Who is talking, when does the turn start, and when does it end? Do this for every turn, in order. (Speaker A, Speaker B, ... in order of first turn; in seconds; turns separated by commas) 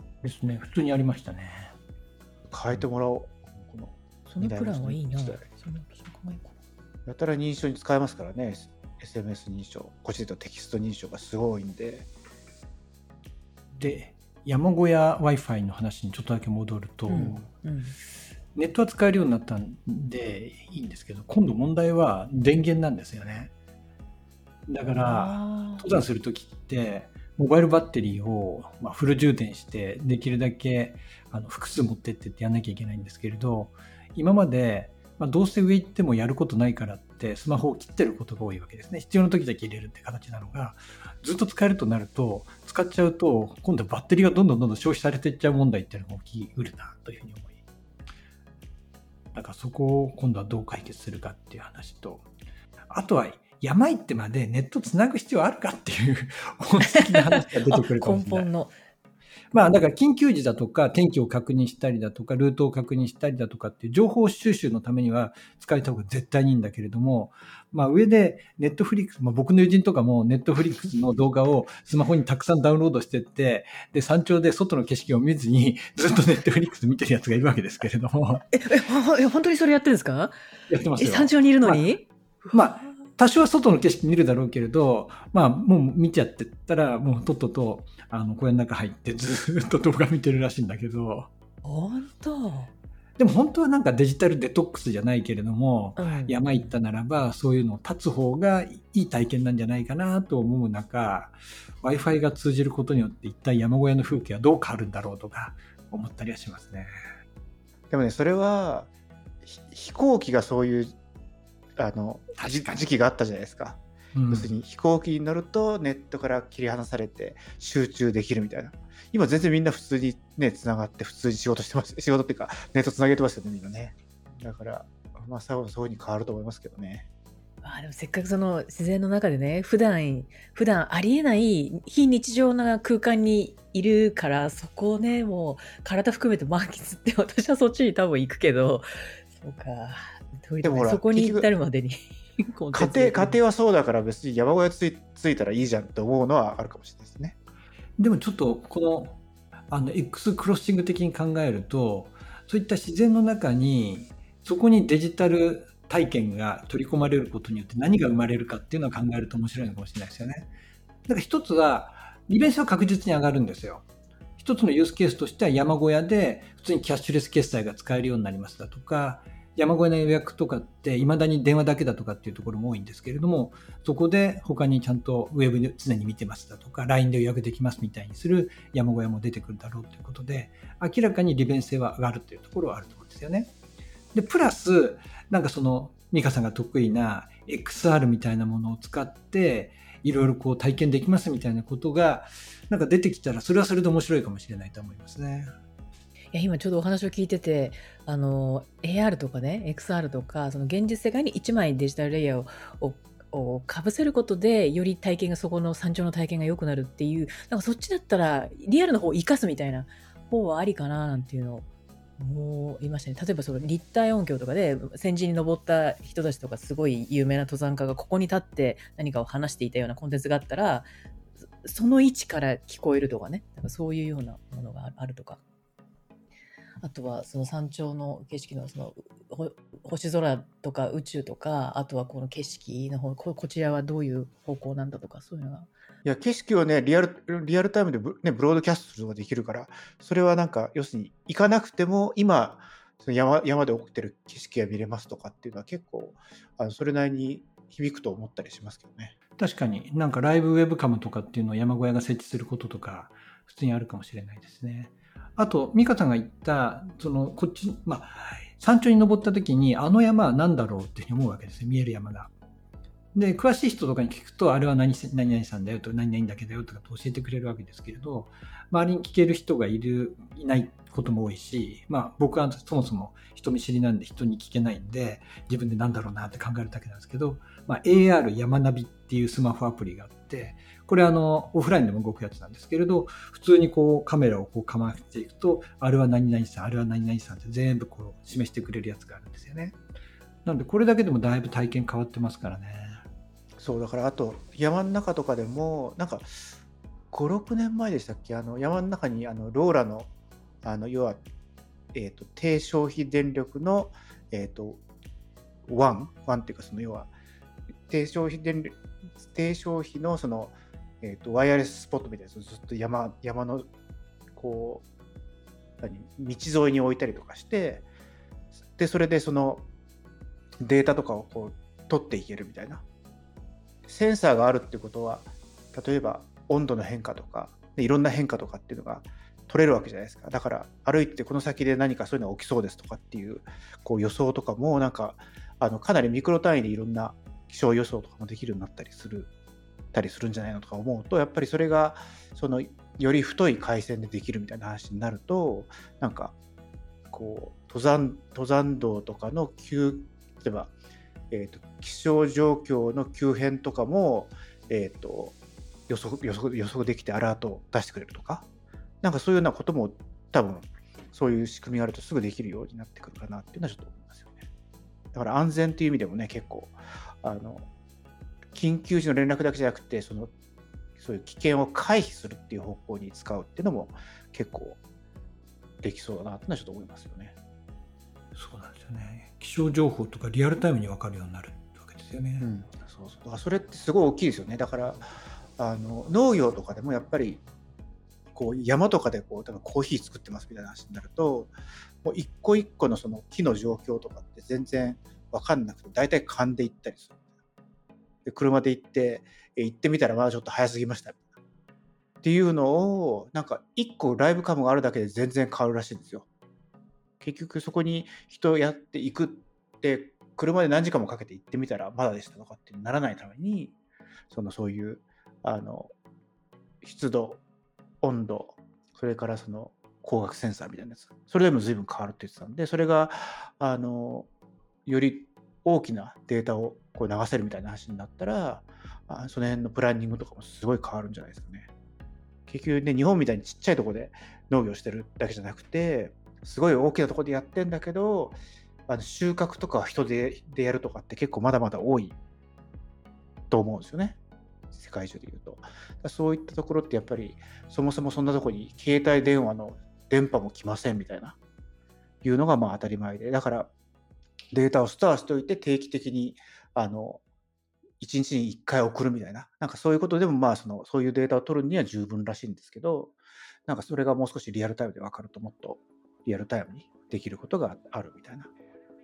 Speaker A: 0.2-1.7, Speaker B: 2.5-5.4, Speaker C: 4.3-6.5, Speaker B: 7.0-12.1, Speaker A: 13.7-17.4, Speaker C: 17.1-18.0, Speaker A: 18.5-23.5, Speaker A: 24.7-47.6, Speaker C: 25.0-25.9, Speaker A: 49.3-52.2, Speaker A: 52.9-58.5, Speaker C: 56.8-58.7, Speaker A: 59.5-78.5, Speaker C: 78.5-80.3, Speaker A: 80.7-81.9, Speaker C: 81.0-82.5, Speaker A: 82.5-91.3, Speaker C: 91.6-92.7, Speaker A: 93.2-106.9, Speaker C: 96.0-96.7, Speaker B: 107.9-108.9, Speaker B: 109.4-111.0, Speaker B: 111.8-127.1, Speaker A: 112.4-112.7, Speaker A: 114.1-114.5, Speaker C: 127.6-143.4, Speaker B: 140.6-141.5, Speaker B: 142.7-147.3, Speaker A: 148.0-149.2, Speaker A: 149.7-160.5, Speaker A: 161.1-163.9, Speaker A: 164.4-183.5, Speaker A: 184.1-195.5, Speaker C: 196.3-211.7, Speaker C: 212.2-220.9, Speaker C: 221.6-225.4, Speaker C: 226.8-235.7, Speaker B: 236.0-249.1, Speaker A: 249.4-262.3, Speaker A: 263.1-289.8, Speaker A: 290.4-293.0, Speaker B: 293.6-296.6, Speaker B: 297.1-300.1, Speaker B: 300.6-301.2, Speaker B: 301.9-304.8, Speaker B: 305.7-307.1, Speaker B: 307.9-313.7, Speaker B: 314.3-314.8, Speaker B: 315.8-317.9, Speaker B: 318.8-319.7, Speaker B: 320.6-322.8, Speaker B: 323.8-339.3, Speaker B: 339.9-346.3, Speaker B: 347.1-350.7, Speaker B: 351.3-355.4, Speaker B: 355.9-358.4, Speaker B: 359.0-364.4, Speaker B: 365.1-367.6, Speaker B: 368.5-370.3, Speaker B: 371.0-374.8, Speaker B: 375.8-377.3, Speaker A: 378.3-382.5, Speaker B: 382.4-387.4, Speaker B: 388.3-391.5, Speaker B: 392.0-397.2, Speaker B: 398.2-401.2, Speaker B: 402.2-406.3, Speaker B: 407.2-413.8, Speaker B: 414.3-415.9, Speaker B: 416.8-417.4, Speaker B: 418.0-424.3, Speaker B: 424.9-431.7, Speaker B: 432.5-442.2, Speaker B: 443.5-444.2, Speaker B: 444.7-451.4, Speaker B: 452.2-453.7, Speaker B: 454.5-457.2, Speaker B: 458.0-468.5